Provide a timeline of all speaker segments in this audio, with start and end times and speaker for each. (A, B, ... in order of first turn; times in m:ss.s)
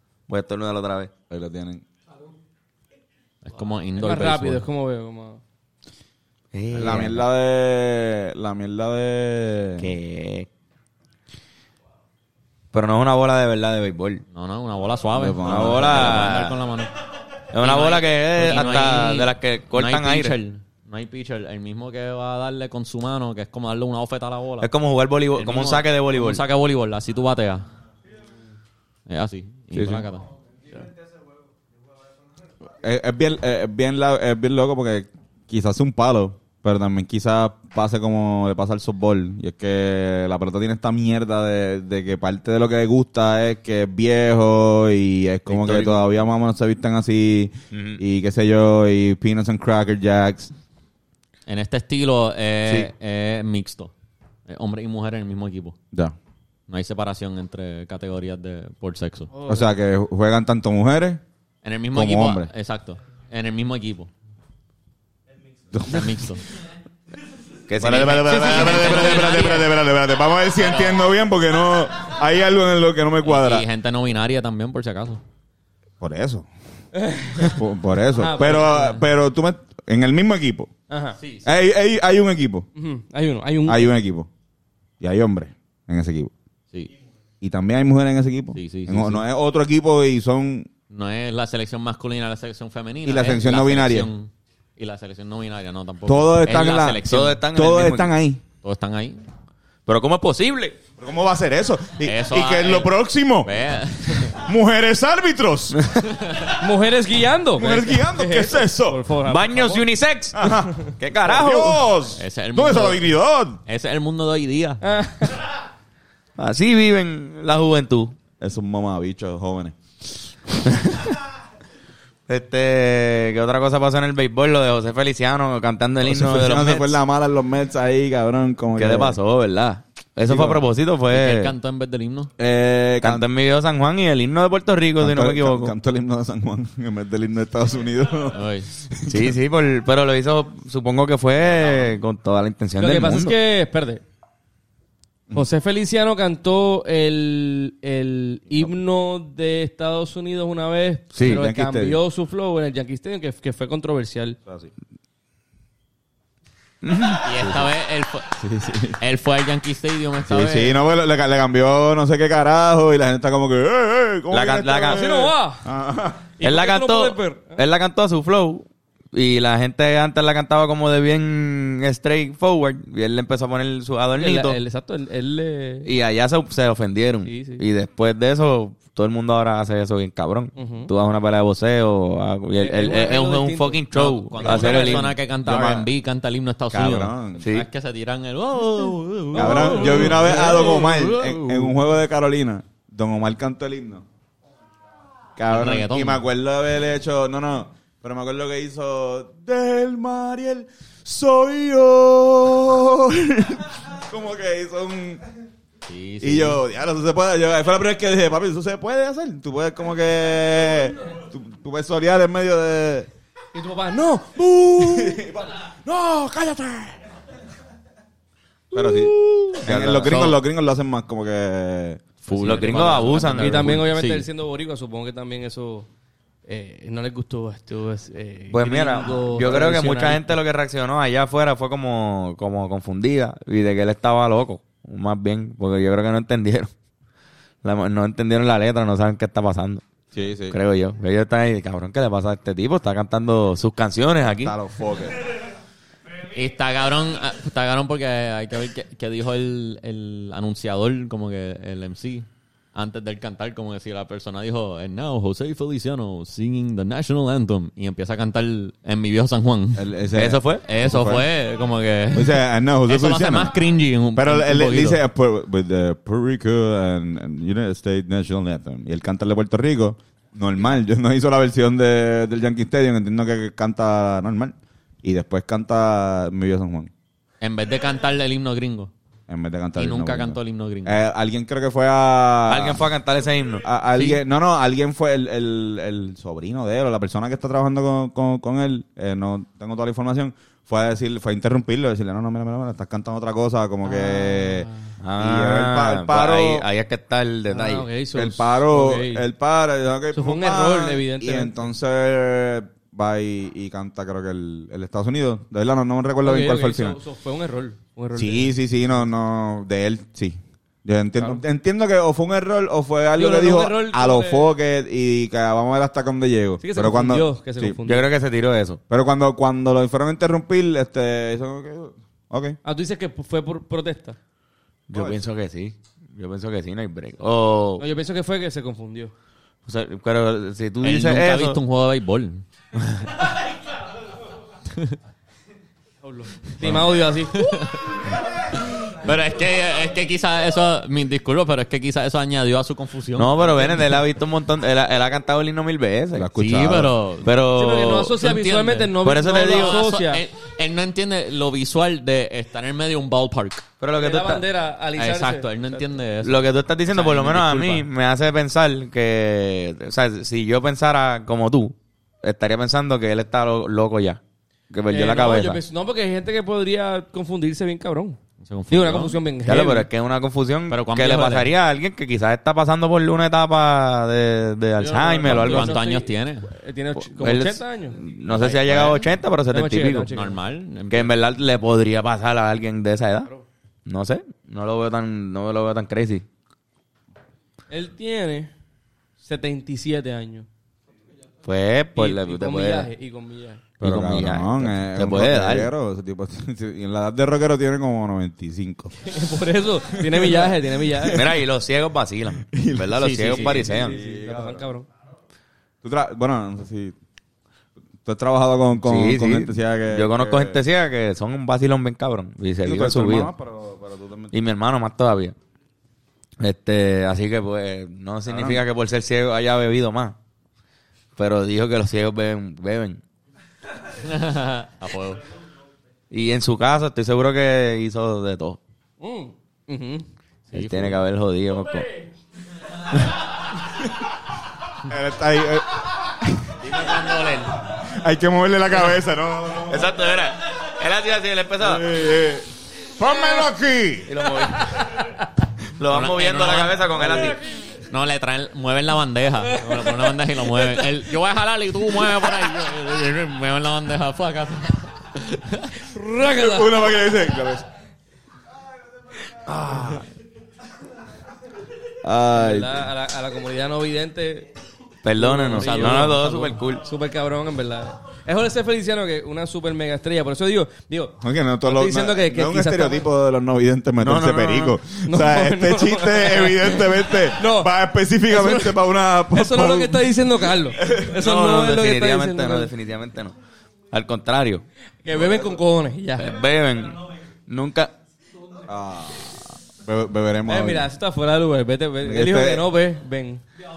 0:00.3-0:01.1 A
0:01.3-0:01.8 B
0:03.4-0:04.6 C
0:04.0-0:05.4 D
0:06.5-0:07.2 A
0:06.7-0:09.9 B
0:09.8-0:10.5 A
0:12.7-0:14.2 A
0:14.3-0:17.0 C
0:15.2-0:16.3 B
0:15.4-0:16.6 A
0:17.5-0:20.4 A
0:17.6-0:24.7 C
0:24.6-0:26.4 A
0:25.4-0:27.6 C
0:29.1-0:30.3 C
0:29.7-0:30.1 B
0:32.8-0:50.5 B
0:45.6-0:46.0 C
0:45.6-0:45.9 A
0:47.7-0:48.0 A
0:51.5-0:53.9 C
0:54.5-0:55.8 C
0:56.7-0:59.3 C
0:59.3-0:59.7 D
0:59.5-1:01.2 B
1:01.6-1:04.1 C
1:01.9-1:02.5 B
1:05.7-1:06.1 B
1:05.9-1:06.4 C
1:07.7-1:09.5 A
1:07.8-1:13.6 B
1:07.9-1:09.8 C
1:08.7-1:09.2 D
1:10.6-1:11.2 C
1:13.2-1:15.2 C
1:16.0-1:16.5 B
1:17.0-1:17.6 D
1:17.4-1:20.7 B
1:18.1-1:19.0 D
1:20.9-1:21.2 D
1:21.2-1:21.5 C
1:21.4-1:22.7 B
1:22.8-1:23.9 D
1:23.7-1:24.3 B
1:25.0-1:26.3 B
1:27.4-1:30.7 B
1:28.6-1:29.2 C
1:30.9-1:37.4 C
1:33.0-1:34.1 B
1:36.1-1:38.4 B
1:37.0-1:38.1 A
1:38.6-1:39.2 C
1:39.9-1:40.8 A
1:41.0-1:43.5 B
1:42.0-1:44.4 C
1:44.1-1:45.9 B
1:46.1-1:46.4 C
1:46.5-1:49.9 D
1:47.6-1:49.0 B
1:49.3-1:51.8 A
1:50.3-1:53.6 B
1:52.2-1:53.1 C
1:53.7-1:54.8 C
1:54.8-1:55.4 D
1:56.4-1:58.2 A
1:58.4-2:00.3 B
2:02.3-2:07.0 A
2:06.0-2:09.2 B
2:08.8-2:11.5 A
2:10.2-2:10.6 B
2:11.1-2:12.3 C
2:12.4-2:13.3 B
2:13.0-2:15.7 A
2:15.0-2:19.3 B
2:18.3-2:18.8 C
2:19.1-2:23.4 A
2:22.8-2:24.0 D
2:25.3-2:34.4 D
2:31.1-2:31.4 A
2:31.2-2:32.0 B
2:36.8-2:37.3 A
2:37.2-2:38.4 C
2:38.4-2:39.0 B
2:39.0-2:40.8 C
2:40.2-2:46.3 B
2:44.3-2:45.1 A
2:44.8-2:45.7 D
2:46.4-2:47.6 D
2:46.4-2:54.6 A
2:54.2-2:55.9 D
2:55.8-3:05.2 A
2:57.2-2:57.6 D
3:00.6-3:00.9 D
3:02.6-3:03.8 D
3:03.9-3:11.7 C
3:04.4-3:05.1 D
3:05.4-3:05.9 B
3:06.7-3:07.4 B
3:07.4-3:07.7 A
3:09.3-3:10.8 D
3:09.4-3:14.0 B
3:15.4-3:25.2 B
3:15.5-3:16.2 C
3:25.9-3:26.6 C
3:26.2-3:33.1 B
3:33.5-3:35.2 D
3:34.7-3:37.0 B
3:38.7-3:42.6 B
3:38.8-3:39.6 D
3:39.6-3:40.4 A
3:42.3-3:44.3 C
3:42.4-3:43.8 A
3:42.6-3:45.9 D
3:46.5-3:50.3 D
3:48.5-3:56.7 A
3:57.6-3:59.8 A
4:00.1-4:00.6 B
4:00.5-4:04.6 A
4:04.3-4:05.2 B
4:06.3-4:19.9 C
4:19.8-4:21.3 B
4:20.2-4:20.7 A
4:20.6-4:25.0 C
4:22.1-4:23.5 B
4:24.2-4:36.9 B
4:37.4-4:38.9 C
4:39.3-4:42.8 B
4:39.8-4:41.0 C
4:42.5-4:43.7 A
4:43.6-4:56.6 B
4:53.8-4:54.9 D
4:55.0-4:57.9 A
4:57.5-4:59.2 D
4:58.2-5:07.0 B
5:00.1-5:01.6 D
5:06.2-5:08.6 D
5:08.2-5:17.8 B
5:11.2-5:11.4 D
5:13.2-5:14.6 D
5:16.6-5:18.1 D
5:17.8-5:18.8 A
5:18.9-5:22.6 B
5:22.6-5:24.2 D
5:24.9-5:27.8 A
5:24.9-5:25.2 B
5:27.8-5:29.1 D
5:29.7-5:31.6 A
5:30.8-5:32.4 C
5:36.0-5:37.5 D
5:36.6-5:36.9 B
5:37.3-5:44.0 C
5:43.2-5:46.3 A
5:46.1-5:46.9 B
5:46.4-5:47.3 C
5:47.2-5:48.3 A
5:47.5-5:50.2 D
5:48.2-5:53.7 C
5:49.0-5:49.8 A
5:53.8-5:54.4 A
5:54.0-5:55.9 D
5:55.0-5:57.9 C
5:56.2-6:05.6 A
6:04.9-6:08.2 D
6:08.4-6:09.2 C
6:08.7-6:09.9 D
6:09.4-6:15.8 A
6:10.7-6:11.5 C
6:14.8-6:18.0 D
6:15.2-6:16.5 C
6:17.0-6:20.1 A
6:18.3-6:19.0 C
6:19.5-6:20.4 D
6:20.1-6:21.1 C
6:20.9-6:23.3 A
6:23.9-6:26.2 A
6:27.7-6:28.5 D
6:29.2-6:30.5 D
6:31.4-6:32.9 A
6:32.0-6:33.6 D
6:33.8-6:38.9 B
6:33.8-6:35.7 A
6:39.0-6:41.3 D
6:39.9-6:41.3 B
6:41.0-6:44.0 A
6:42.4-6:44.7 B
6:43.0-6:43.6 C
6:43.2-6:44.9 D
6:45.8-6:47.0 B
6:48.0-6:50.6 B
6:48.8-6:53.3 A
6:52.6-6:54.3 B
6:54.3-6:55.4 A
6:56.4-7:00.2 A
6:58.3-6:58.6 B
7:01.2-7:03.0 A
7:04.0-7:05.2 C
7:06.1-7:08.6 A
7:09.0-7:10.1 D
7:10.5-7:11.0 C
7:10.5-7:11.9 A
7:14.7-7:16.9 B
7:16.6-7:17.6 C
7:17.6-7:19.9 B
7:19.7-7:21.9 A
7:21.6-7:24.3 B
7:24.1-7:24.8 A
7:25.8-7:27.4 A
7:25.9-7:35.7 C
7:29.5-7:30.9 D
7:35.8-7:36.9 D
7:36.3-7:37.7 B
7:39.5-7:40.0 B
7:42.0-7:42.9 B
7:42.3-7:44.5 D
7:45.0-7:46.9 A
7:45.2-7:53.1 D
7:45.5-7:46.4 C
7:51.2-8:01.1 B
7:54.0-7:54.8 A
7:55.1-7:57.7 D
7:58.3-7:58.8 D
7:59.3-8:02.7 D
8:01.0-8:03.4 A
8:03.9-8:04.6 A
8:05.0-8:06.3 D
8:05.1-8:05.6 B
8:06.2-8:07.9 A
8:08.7-8:10.9 B
8:10.5-8:13.4 D
8:12.0-8:12.6 B